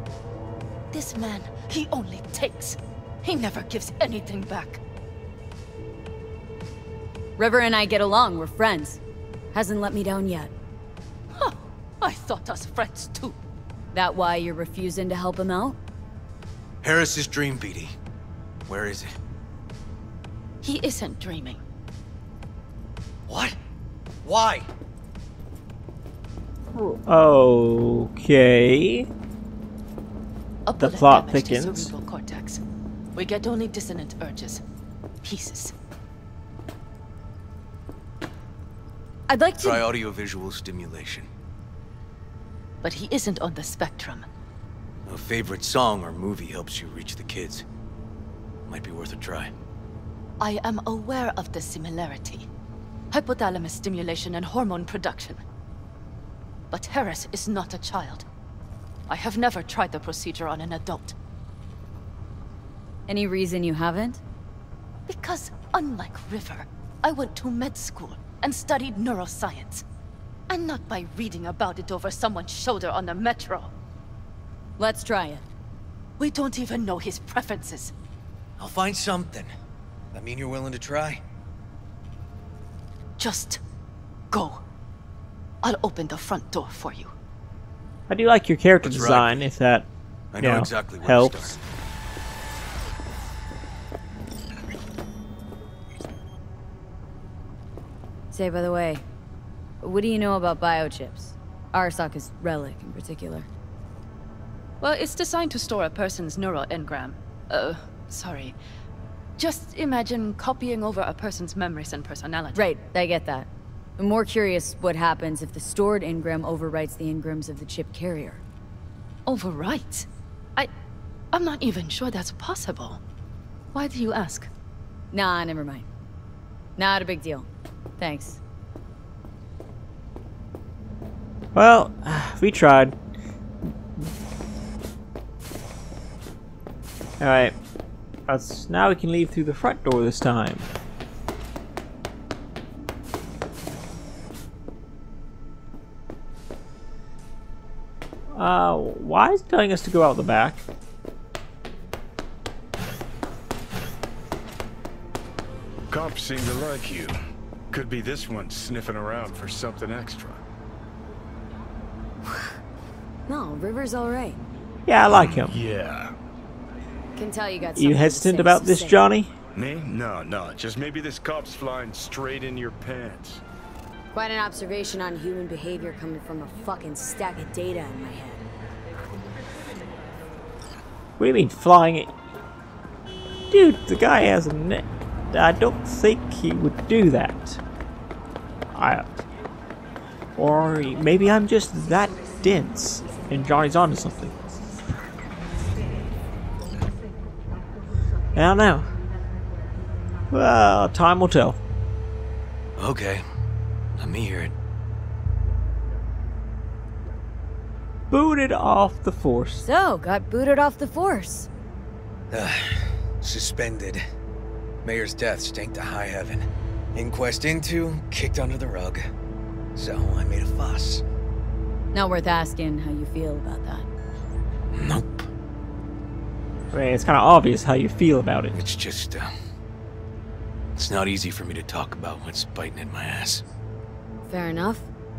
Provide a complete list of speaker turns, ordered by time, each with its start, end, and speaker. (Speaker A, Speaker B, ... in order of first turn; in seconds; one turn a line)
Speaker A: 0.9-4.8
Speaker B: 7.4-9.0
Speaker B: 9.5-10.5
Speaker A: 11.4-13.4
Speaker B: 13.9-15.8
Speaker C: 16.8-17.9
Speaker C: 18.7-19.2
Speaker A: 20.6-21.6
Speaker C: 23.3-23.6
Speaker C: 24.2-24.7
Speaker D: 26.8-29.1
Speaker A: 30.7-32.6
Speaker D: 30.8-31.9
Speaker A: 33.1-34.6
Speaker A: 35.2-35.7
Speaker B: 39.3-39.8
Speaker C: 39.6-41.3
Speaker A: 42.8-44.2
Speaker C: 45.1-47.6
Speaker C: 48.7-49.5
Speaker A: 50.4-52.5
Speaker A: 53.1-55.4
Speaker A: 56.7-58.2
Speaker A: 59.1-61.1
Speaker B: 63.1-64.2
Speaker A: 65.1-69.8
Speaker A: 70.5-73.7
Speaker B: 74.8-75.5
Speaker A: 76.2-77.9
Speaker C: 78.6-79.5
Speaker C: 80.1-81.2
Speaker A: 83.2-83.6
Speaker A: 84.3-84.6
Speaker A: 85.6-87.1
Speaker D: 88.1-89.9
Speaker C: 88.8-89.5
Speaker C: 90.3-91.6
Speaker D: 90.4-91.6
Speaker B: 98.3-99.0
Speaker B: 99.8-103.5
Speaker A: 104.8-108.6
Speaker A: 109.4-112.7
Speaker B: 112.5-118.4
Speaker A: 119.3-120.7
Speaker A: 121.3-123.0
Speaker A: 123.7-124.5
Speaker B: 125.1-125.9
Speaker B: 126.8-127.5
Speaker B: 128.0-128.4
Speaker D: 131.6-133.0
Speaker D: 137.2-137.6
Speaker D: 138.3-140.7
Speaker D: 148.3-150.7
Speaker E: 155.9-157.2
Speaker E: 157.7-160.4
Speaker B: 163.3-164.4
Speaker D: 164.9-165.6
Speaker E: 165.1-166.1
Speaker B: 167.2-169.1
Speaker D: 167.8-169.3
Speaker E: 169.6-173.4
Speaker B: 174.1-178.4
Speaker D: 181.2-182.1
Speaker D: 183.5-187.6
Speaker D: 188.7-189.1
Speaker D: 190.4-194.5
Speaker D: 198.3-198.9
Speaker D: 200.3-201.6
Speaker C: 202.8-203.2
Speaker C: 203.9-204.5
Speaker D: 208.1-209.7
Speaker B: 209.6-211.5
Speaker C: 212.3-214.0
Speaker C: 214.8-219.1
Speaker C: 219.8-221.0
Speaker B: 221.9-223.9
Speaker C: 224.7-225.3
Speaker D: 226.7-228.6
Speaker C: 228.5-229.3
Speaker C: 230.8-233.4
Speaker B: 234.3-234.9